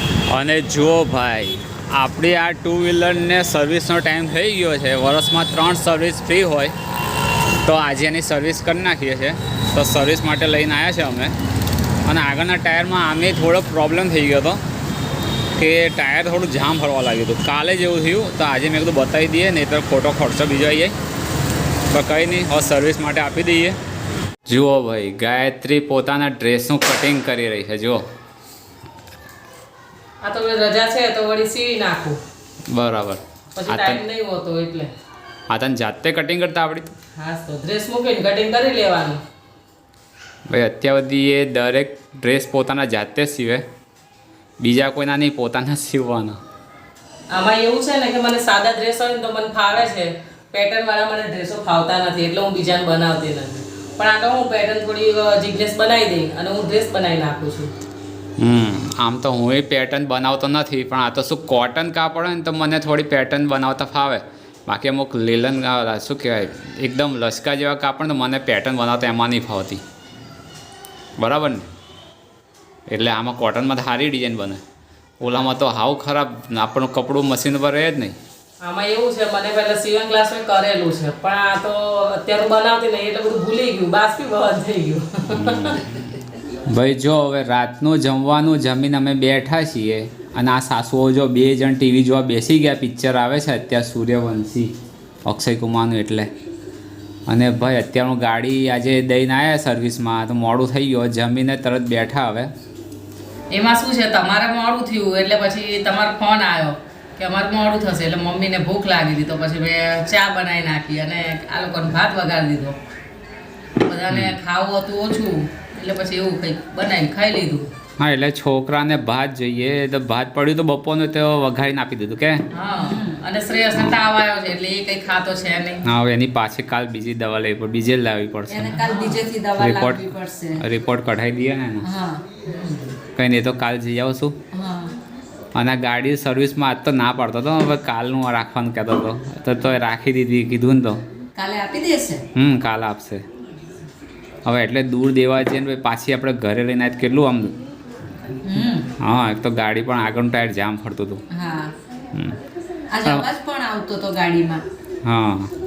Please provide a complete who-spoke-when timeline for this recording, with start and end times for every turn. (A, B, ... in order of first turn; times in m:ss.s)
0:00.2-0:06.8 A
0:07.6-0:11.3 A
0:12.0-0:14.6 A
0:15.5-0:21.0 A
0:21.9-0:23.8 A
0:24.4-0:28.0 A
0:30.2-0:32.2 B
0:32.7-0:34.0 A
0:33.5-0:34.9 B
0:35.5-0:36.9 A
0:37.2-0:39.2 B
0:40.5-0:43.6 A
0:44.6-0:46.4 A
0:47.3-0:57.7 B
0:58.4-1:09.8 A
1:11.2-1:11.7 A
1:12.9-1:14.6 A
1:15.2-1:18.2 A
1:18.6-1:26.0 B
1:25.3-1:26.0 A
1:26.6-1:34.7 A
1:35.2-1:36.3 A
1:37.3-1:42.5 A
1:43.5-1:52.8 B
1:53.8-1:57.7 B
1:54.1-1:54.4 A
1:58.0-2:02.4 A
2:02.5-2:05.8 B
2:02.7-2:03.2 C
2:05.8-2:08.9 A
2:08.5-2:10.6 C
2:08.8-2:09.2 B
2:09.6-2:11.9 A
2:11.8-2:12.2 C
2:12.5-2:13.0 B
2:13.1-2:14.4 A
2:14.5-2:14.9 C
2:15.5-2:21.0 A
2:21.4-2:22.2 C
2:22.3-2:23.2 A
2:24.4-2:27.6 A
2:28.4-2:28.9 C
2:29.0-2:31.2 A
2:31.3-2:31.7 C
2:32.9-2:34.6 C
2:35.0-2:35.5 A